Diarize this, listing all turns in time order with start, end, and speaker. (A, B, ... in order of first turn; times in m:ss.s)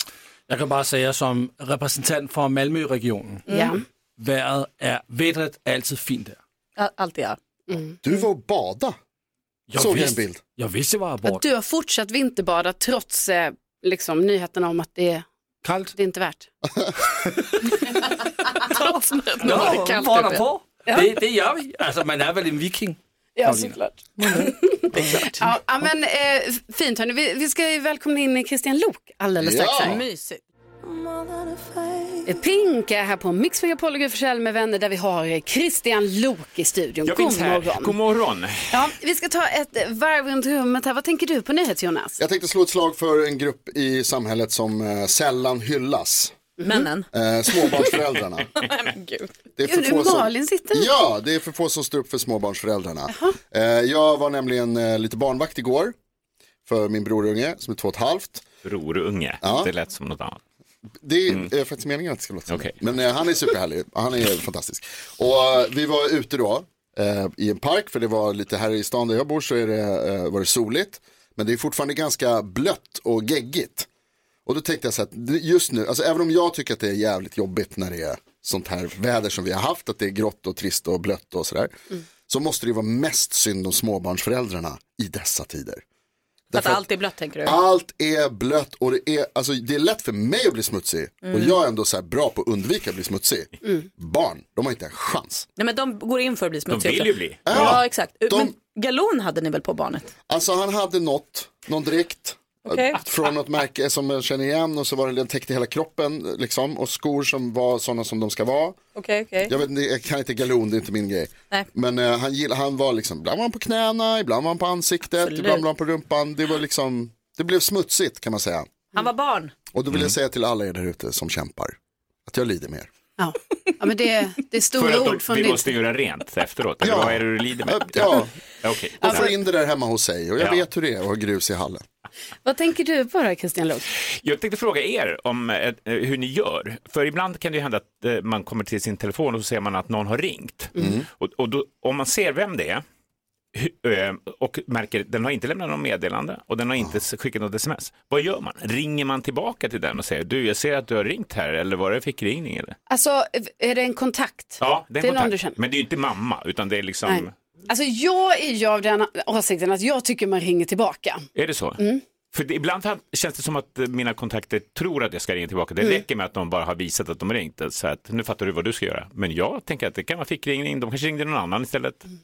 0:00.5-0:03.5 A
0:03.5-0:03.8 B
0:03.5-0:03.8 C
0:04.2-0:06.4 A
0:06.8-0:07.4 B
0:07.7-0:08.0 C
0:08.0-0:09.0 D
0:09.7-0:11.4 A
0:09.8-0:10.4 D
0:11.2-0:15.3 C
0:15.6-0:15.9 A
0:15.9-0:16.5 C
0:16.7-0:16.9 D
0:18.7-0:20.4 B
0:19.4-0:25.2 A
0:23.4-0:30.0 C
0:25.0-0:25.4 B
0:29.4-0:30.0 D
0:29.8-0:30.4 B
0:32.3-0:38.0 C
0:37.0-0:38.8 E
0:38.7-0:42.2 C
0:42.2-0:46.4 D
0:46.6-0:46.9 C
0:46.6-0:47.1 B
0:47.1-0:48.5 D
0:48.6-0:49.3 B
0:49.6-0:56.0 D
0:49.6-0:50.9 C
0:53.1-0:53.4 C
0:56.7-0:58.5 D
0:58.6-1:00.4 E
0:59.4-0:59.7 D
1:01.0-1:13.9 D
1:02.5-1:02.8 E
1:14.5-1:21.7 D
1:22.3-1:25.8 D
1:26.5-1:26.8 D
1:26.5-1:27.6 B
1:27.4-1:35.5 D
1:31.2-1:31.6 B
1:35.6-1:40.1 B
1:36.7-1:37.8 E
1:37.5-1:38.6 D
1:40.3-1:48.8 D
1:42.6-1:43.0 B
1:49.0-1:49.5 B
1:49.4-1:58.7 D
1:55.2-1:55.6 B
1:59.0-1:59.5 B
1:59.7-2:02.9 D
2:03.2-2:05.8 C
2:04.7-2:09.3 E
2:06.8-2:08.3 D
2:09.0-2:09.3 C
2:09.0-2:11.8 D
2:10.4-2:10.6 E
2:12.4-2:13.8 C
2:14.0-2:22.8 E
2:20.8-2:21.1 D
2:23.5-2:32.8 E
2:32.9-2:35.6 C
2:34.6-2:37.3 E
2:37.1-2:41.3 C
2:41.4-2:52.0 E